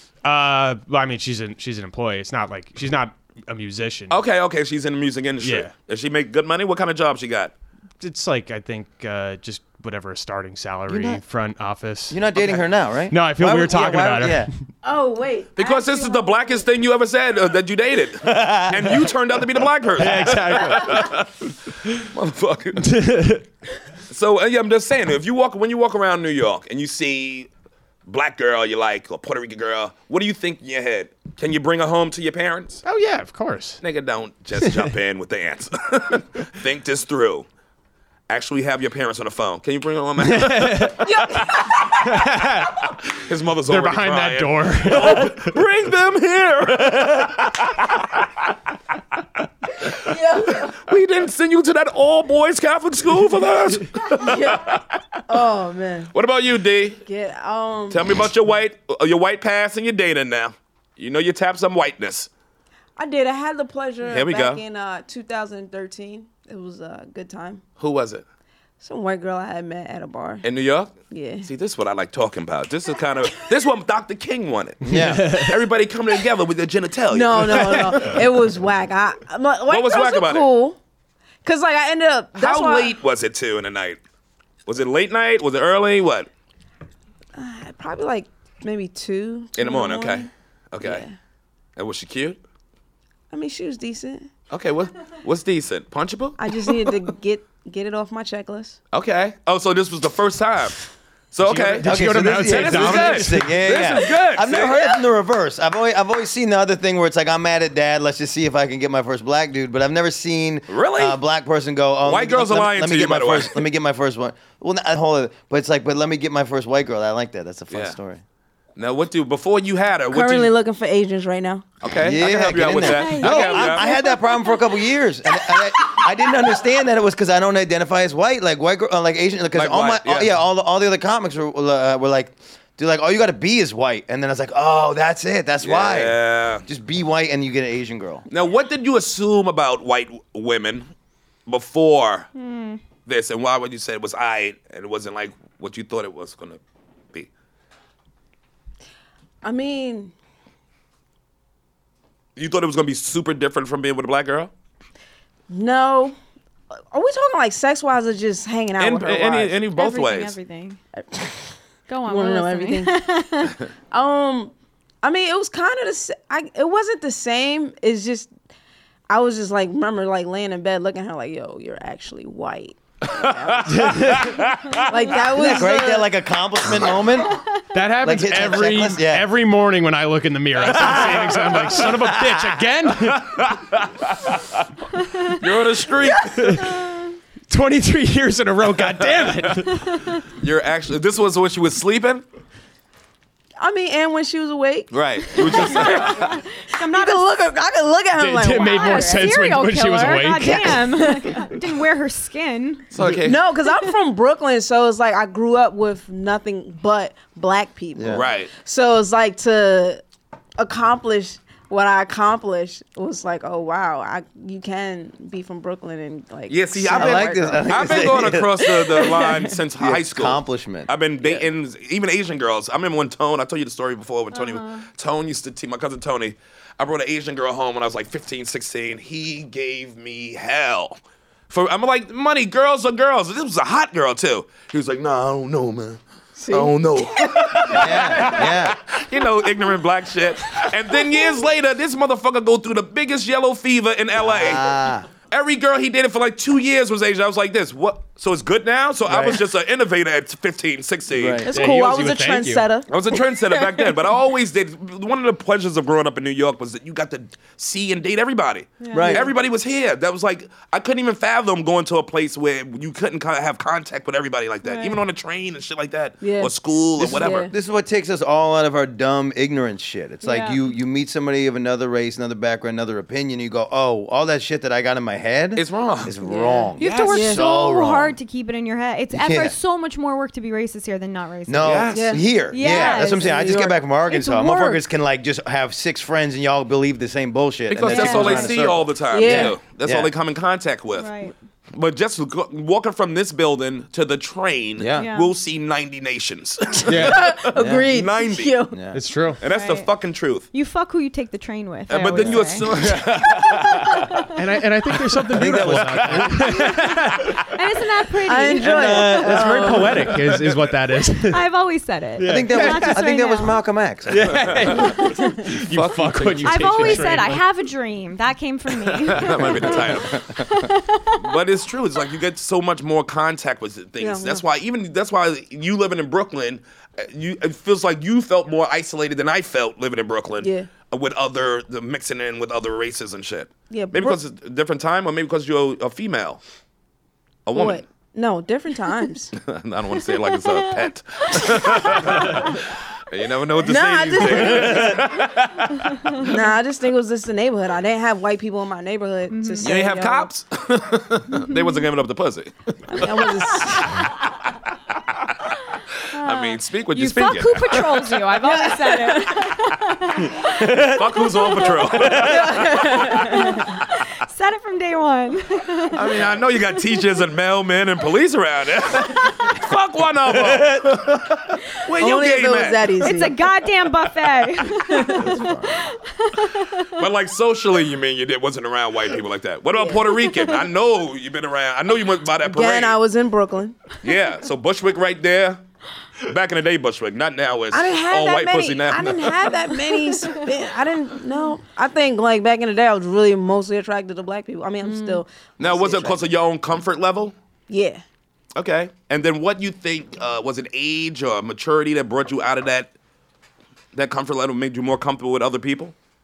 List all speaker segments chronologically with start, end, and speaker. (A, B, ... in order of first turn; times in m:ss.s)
0:00.2-0:04.2 A
0:04.1-0:07.5 B
0:05.4-0:05.7 A
0:08.0-0:12.2 A
0:10.9-0:11.2 C
0:12.1-0:14.5 C
0:13.1-0:14.5 A
0:14.8-0:16.6 D
0:15.6-0:23.0 B
0:18.2-0:19.1 C
0:20.0-0:21.1 A
0:22.8-0:23.4 A
0:24.1-0:27.5 B
0:28.1-0:32.8 B
0:32.8-0:33.8 A
0:33.8-0:37.4 B
0:38.3-0:41.6 B
0:40.2-0:41.1 A
0:41.0-0:42.0 D
0:42.0-0:42.7 A
0:43.1-0:48.3 B
0:43.7-0:45.5 A
0:49.8-0:50.8 D
0:50.0-0:54.9 B
0:54.2-0:56.1 D
0:56.1-0:57.0 B
0:57.0-0:58.2 D
0:57.9-1:02.3 B
1:03.0-1:07.6 D
1:04.0-1:04.6 B
1:07.8-1:08.2 B
1:08.8-1:10.4 D
1:10.4-1:18.2 B
1:11.1-1:11.5 D
1:14.8-1:15.4 C
1:14.9-1:15.5 A
1:17.1-1:20.8 D
1:19.7-1:20.5 B
1:21.4-1:23.0 D
1:22.4-1:24.0 B
1:24.7-1:26.3 B
1:27.3-1:30.3 D
1:29.6-1:31.0 B
1:30.8-1:31.1 D
1:31.8-1:32.4 B
1:33.3-1:34.3 D
1:34.5-1:37.0 B
1:36.4-1:38.8 D
1:38.9-1:45.0 B
1:41.4-1:43.6 A
1:41.8-1:58.2 C
1:50.7-1:51.2 B
1:52.0-1:53.6 B
1:57.7-1:58.0 B
1:58.8-2:00.5 B
2:00.1-2:01.6 D
2:01.8-2:03.9 B
2:02.0-2:18.2 C
2:02.8-2:04.6 E
2:09.5-2:10.3 B
2:15.6-2:16.6 B
2:18.3-2:20.9 B
2:21.5-2:22.3 B
2:22.4-2:22.8 E
2:23.0-2:26.6 B
2:29.4-2:30.1 D
2:32.4-2:34.5 B
2:35.5-2:36.1 D
2:36.9-2:39.6 D
2:38.8-2:40.4 B
2:39.7-2:40.8 E
2:41.0-2:43.0 D
2:41.9-2:43.6 E
2:43.9-2:48.3 D
2:49.1-2:54.2 D
2:53.0-2:54.9 B
2:53.6-2:54.4 A
2:54.8-2:56.1 D
2:55.3-2:57.4 C
2:57.7-3:03.5 A
2:58.0-2:59.3 C
3:00.7-3:02.6 C
3:03.2-3:04.4 B
3:05.0-3:05.4 E
3:05.3-3:06.6 B
3:06.7-3:07.1 E
3:07.5-3:09.9 A
3:09.8-3:10.2 E
3:10.4-3:12.2 B
3:13.6-3:19.3 D
3:14.9-3:16.4 B
3:15.8-3:17.3 E
3:18.2-3:20.8 A
3:18.5-3:22.9 E
3:20.4-3:21.5 D
3:22.9-3:23.4 B
3:23.2-3:30.0 D
3:28.0-3:28.2 C
3:28.1-3:28.5 B
3:30.6-3:39.5 D
3:36.5-3:51.0 B
3:36.9-3:38.7 C
3:39.8-3:40.9 C
3:44.3-3:44.8 E
3:51.5-4:04.7 B
3:56.4-3:58.3 D
3:57.7-3:58.8 C
4:04.1-4:05.1 C
4:05.3-4:11.4 B
4:09.0-4:09.4 C
4:11.1-4:11.5 C
4:11.4-4:13.9 D
4:11.5-4:12.6 A
4:12.9-4:27.5 B
4:18.8-4:19.2 E
4:18.9-4:19.3 C
4:24.6-4:25.0 E
4:26.2-4:27.5 D
4:27.0-4:38.2 C
4:30.2-4:30.6 E
4:35.6-4:36.2 B
4:36.2-4:37.4 D
4:36.8-4:41.8 E
4:36.8-4:37.2 B
4:39.1-4:39.6 C
4:41.5-4:50.1 C
4:41.6-4:42.1 B
4:41.9-4:43.8 D
4:42.5-4:43.3 E
4:44.1-4:44.8 E
4:47.7-4:51.1 B
4:47.9-4:48.5 E
4:48.1-4:48.5 D
4:49.1-4:49.6 D
4:51.0-4:51.3 E
4:51.7-4:58.6 B
4:54.8-4:55.1 C
4:54.9-4:55.3 E
4:56.9-4:57.2 A
4:56.9-4:58.8 D
4:57.5-4:57.9 C
4:58.7-4:59.0 C
4:58.9-4:59.4 A
4:59.4-5:00.5 B
4:59.5-4:59.9 E
5:00.5-5:04.4 E
5:01.9-5:04.1 B
5:02.2-5:02.6 C
5:04.4-5:07.4 A
5:05.3-5:06.6 C
5:05.5-5:06.5 B
5:07.5-5:09.4 E
5:08.2-5:10.1 D
5:08.6-5:10.0 C
5:08.8-5:11.4 A
5:11.3-5:13.6 E
5:12.2-5:13.0 A
5:12.2-5:14.7 C
5:14.1-5:17.4 A
5:14.8-5:15.4 E
5:15.7-5:17.2 B
5:16.4-5:21.4 E
5:19.0-5:20.2 B
5:21.2-5:36.4 B
5:24.0-5:24.4 D
5:30.4-5:30.7 D
5:33.7-5:34.2 D
5:37.4-5:37.8 B
5:37.5-5:39.3 D
5:39.4-5:46.2 B
5:40.1-5:42.6 E
5:43.6-5:45.2 D
5:45.9-5:46.2 E
5:46.1-5:50.3 D
5:49.3-5:49.7 E
5:49.6-5:53.3 B
5:51.4-5:51.8 E
5:52.9-5:54.0 D
5:53.7-5:54.1 E
5:56.1-5:58.3 B
5:56.1-6:01.9 E
5:58.4-5:59.3 D
6:00.5-6:03.3 B
6:02.0-6:03.6 D
6:03.1-6:06.2 E
6:05.9-6:12.9 B
6:10.5-6:11.2 C
6:11.9-6:13.4 D
6:13.0-6:17.0 E
6:14.9-6:15.4 D
6:15.2-6:15.6 C
6:16.9-6:23.0 B
6:19.7-6:20.0 D
6:22.4-6:23.8 D
6:24.0-6:25.6 B
6:26.2-6:29.5 B
6:27.7-6:36.2 D
6:34.8-6:35.2 E
6:35.6-6:37.3 B
6:37.7-6:38.0 D
6:38.6-6:42.9 B
6:43.9-6:45.9 B